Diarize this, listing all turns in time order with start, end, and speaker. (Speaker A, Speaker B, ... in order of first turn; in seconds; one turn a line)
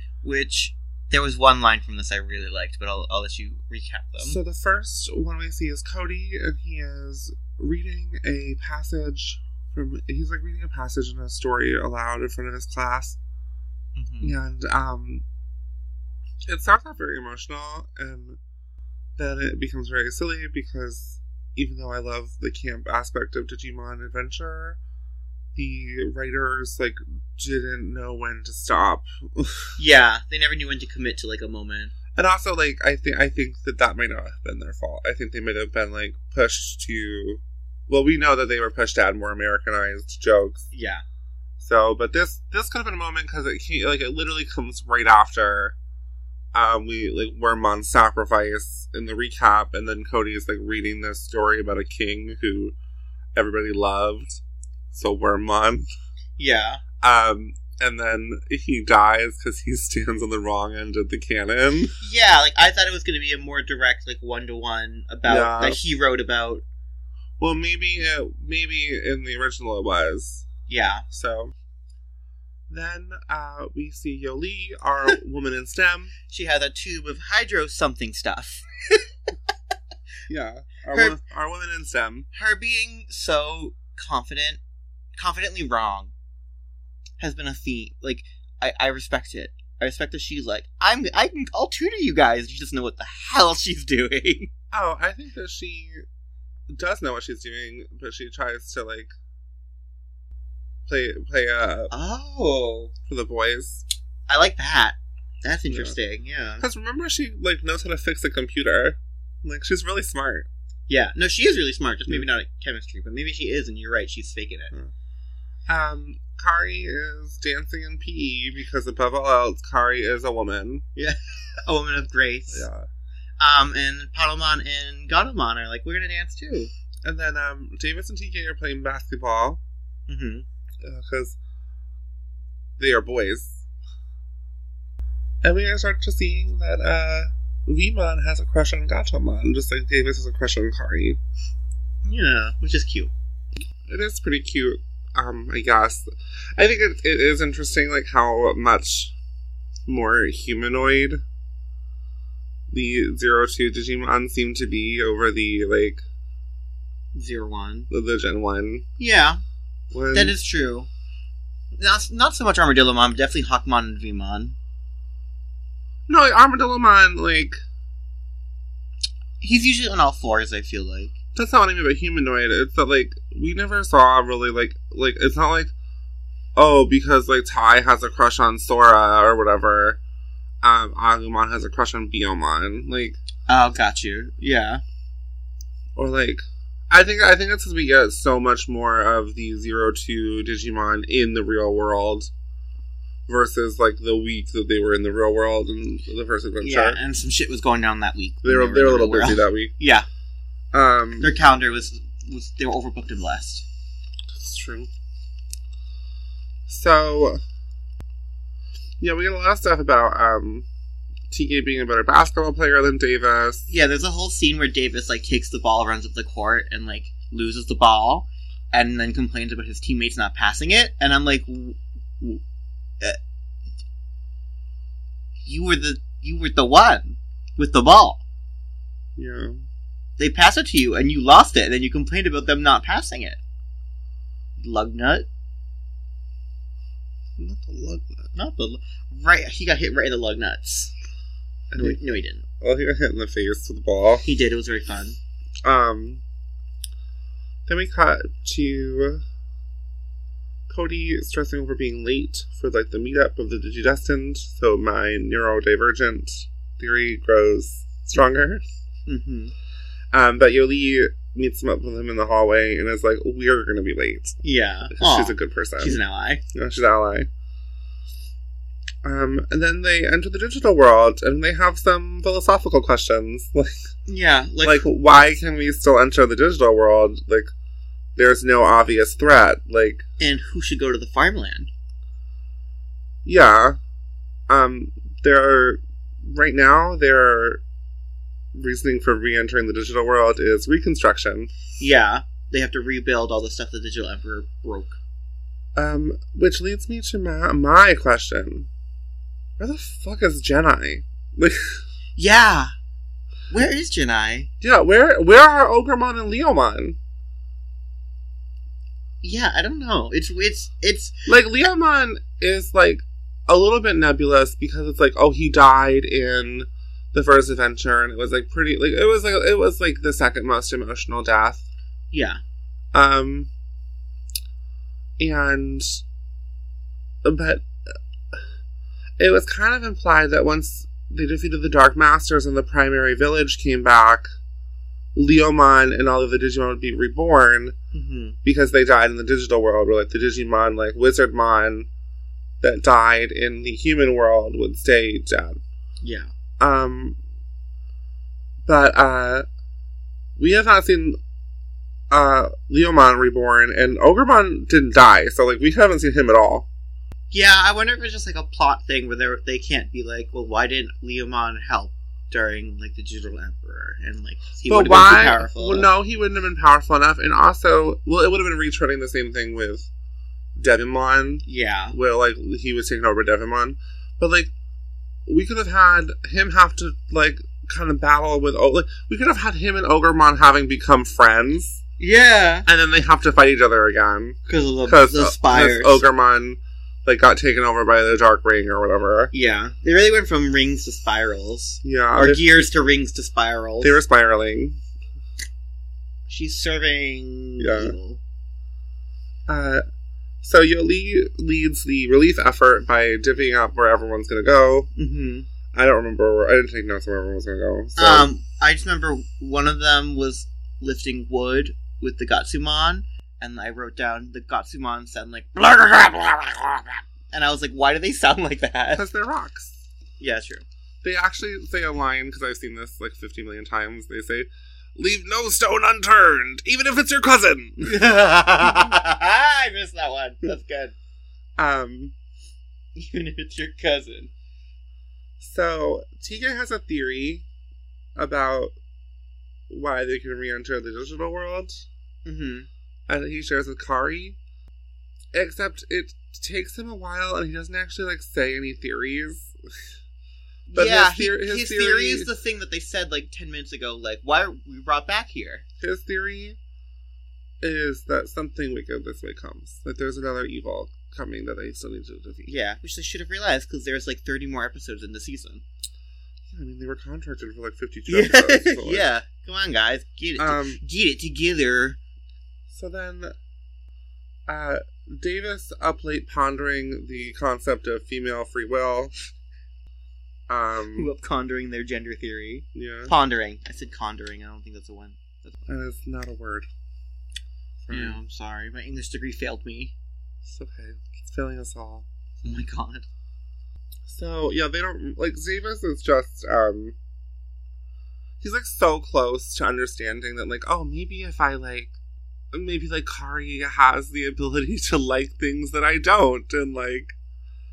Speaker A: 0.2-4.4
Speaker B: 4.2-13.2
Speaker A: 13.9-14.3
Speaker B: 14.2-15.2
Speaker B: 16.5-18.4
Speaker B: 19.2-24.8
Speaker B: 25.6-29.8
Speaker A: 29.8-31.9
Speaker B: 32.1-40.6
Speaker A: 40.7-41.0
Speaker B: 41.6-45.8
Speaker B: 46.5-52.7
Speaker B: 53.3-55.9
Speaker A: 56.4-56.8
Speaker B: 57.0-62.0
Speaker A: 62.0-66.6
Speaker B: 65.3-65.8
Speaker B: 67.4-70.5
Speaker A: 70.7-71.0
Speaker B: 71.1-71.5
Speaker B: 72.7-76.1
Speaker A: 76.3-79.1
Speaker B: 80.3-82.3
Speaker A: 80.9-81.2
Speaker A: 82.3-84.6
Speaker A: 85.2-86.1
Speaker A: 87.2-94.5
Speaker B: 94.7-96.0
Speaker B: 96.7-99.1
Speaker B: 100.9-101.9
Speaker A: 101.9-102.9
Speaker B: 103.1-103.8
Speaker A: 104.3-106.6
Speaker B: 105.7-106.0
Speaker B: 106.6-110.5
Speaker A: 110.9-114.7
Speaker B: 115.7-120.8
Speaker A: 121.0-122.7
Speaker B: 122.5-122.9
Speaker A: 123.4-126.7
Speaker B: 127.0-129.6
Speaker A: 130.1-130.4
Speaker B: 130.8-131.4
Speaker B: 132.8-133.6
Speaker B: 135.4-141.2
Speaker A: 142.0-143.1
Speaker B: 143.9-149.1
Speaker B: 149.9-151.2
Speaker B: 152.7-156.0
Speaker A: 157.1-157.9
Speaker B: 157.9-158.8
Speaker A: 159.0-159.4
Speaker B: 159.9-160.3
Speaker A: 160.1-160.9
Speaker A: 161.8-164.6
Speaker B: 166.1-167.6
Speaker A: 169.4-171.1
Speaker B: 171.3-175.7
Speaker B: 176.5-180.0
Speaker B: 180.6-183.2
Speaker A: 183.5-184.8
Speaker B: 185.9-192.3
Speaker B: 193.3-197.0
Speaker A: 196.6-200.1
Speaker B: 198.4-199.7
Speaker B: 200.7-201.3
Speaker A: 201.2-203.6
Speaker B: 204.3-204.9
Speaker B: 206.7-207.4
Speaker B: 209.0-210.7
Speaker B: 211.3-213.7
Speaker A: 213.7-222.4
Speaker A: 225.4-228.2
Speaker B: 229.2-229.6
Speaker A: 230.2-233.4
Speaker A: 234.6-235.3
Speaker B: 237.4-238.2
Speaker A: 238.3-240.9
Speaker B: 241.7-242.0
Speaker A: 241.8-242.4
Speaker B: 242.6-244.2
Speaker A: 244.2-245.2
Speaker B: 245.6-246.2
Speaker B: 247.7-249.2
Speaker B: 250.7-258.6
Speaker A: 259.1-259.5
Speaker B: 260.1-264.4
Speaker A: 264.4-266.4
Speaker B: 264.9-266.0
Speaker B: 266.5-267.3
Speaker B: 269.0-273.7
Speaker A: 274.1-274.9
Speaker B: 274.6-277.5
Speaker B: 278.1-280.0
Speaker A: 280.2-281.7
Speaker B: 283.2-283.8
Speaker B: 284.5-287.6
Speaker B: 288.5-291.5
Speaker A: 291.8-295.0
Speaker B: 295.7-298.7
Speaker B: 299.6-301.8
Speaker A: 302.1-302.7
Speaker A: 303.5-304.5
Speaker B: 304.6-307.0
Speaker A: 309.2-311.1
Speaker B: 311.3-321.6
Speaker A: 322.1-322.4
Speaker B: 322.9-323.5
Speaker B: 325.2-326.0
Speaker B: 327.2-328.0
Speaker B: 329.2-334.3
Speaker B: 335.1-337.7
Speaker A: 337.9-338.4
Speaker B: 338.4-341.9
Speaker B: 342.6-345.6
Speaker A: 346.0-346.3
Speaker B: 346.6-347.2
Speaker B: 348.6-349.4
Speaker B: 350.4-351.2
Speaker B: 352.1-356.7
Speaker A: 357.3-365.9
Speaker B: 364.7-369.9
Speaker B: 370.5-374.5
Speaker A: 371.5-371.9
Speaker B: 375.2-381.8
Speaker A: 382.0-382.7
Speaker B: 382.6-389.3
Speaker A: 384.5-386.0
Speaker A: 389.3-394.0
Speaker B: 391.8-392.5
Speaker B: 393.8-394.8
Speaker A: 396.3-398.2
Speaker B: 397.6-397.9
Speaker B: 399.5-399.8
Speaker B: 400.4-404.9
Speaker A: 404.9-405.5
Speaker B: 405.7-408.3
Speaker A: 408.0-419.1
Speaker B: 418.9-419.8
Speaker A: 420.2-420.6
Speaker B: 421.0-428.1
Speaker A: 427.8-430.9
Speaker B: 428.6-428.9
Speaker B: 431.6-432.1
Speaker A: 432.9-434.3
Speaker B: 435.4-437.4
Speaker B: 438.1-438.7
Speaker B: 439.7-441.8
Speaker A: 442.2-442.7
Speaker B: 443.1-444.4
Speaker B: 445.3-449.9
Speaker A: 450.7-455.6
Speaker B: 450.7-452.3
Speaker B: 455.8-456.6
Speaker B: 457.6-462.5
Speaker A: 462.4-465.6
Speaker B: 466.5-469.1
Speaker A: 468.1-472.0
Speaker B: 470.4-470.8
Speaker B: 472.7-473.4
Speaker B: 474.5-479.1
Speaker B: 480.5-481.1
Speaker A: 480.9-485.6
Speaker B: 482.7-483.1
Speaker B: 485.6-486.7
Speaker B: 487.8-488.2
Speaker A: 487.9-489.9
Speaker B: 490.4-492.6
Speaker A: 492.4-493.1
Speaker B: 494.1-496.9
Speaker B: 498.4-501.9
Speaker B: 502.5-507.1